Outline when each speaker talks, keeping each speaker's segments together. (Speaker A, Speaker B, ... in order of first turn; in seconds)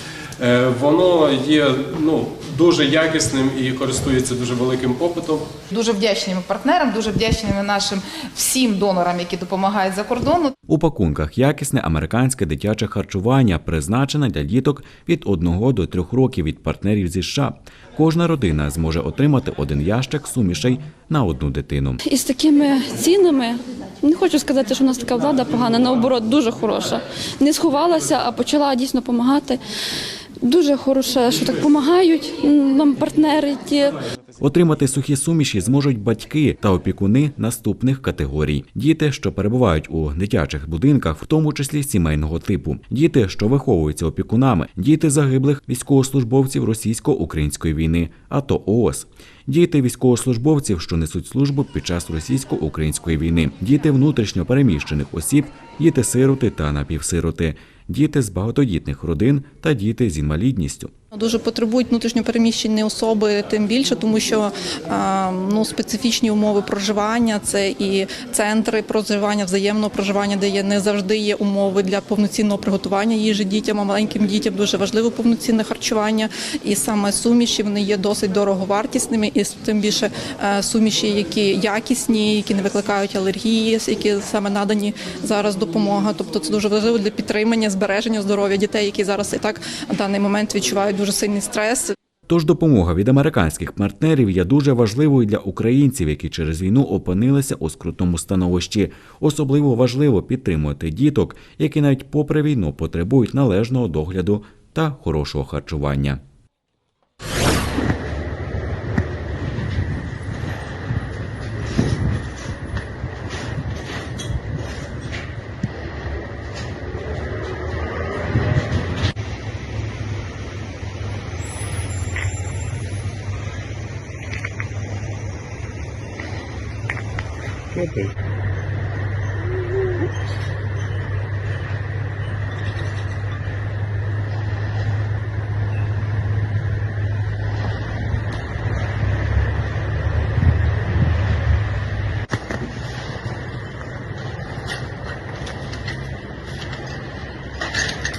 Speaker A: 0.4-5.5
Speaker B: 5.7-10.5
Speaker C: 10.7-22.0, 34.4-60.9, 92.3-106.2
Speaker D: 22.1-29.6, 30.4-34.0
Speaker E: 61.1-91.8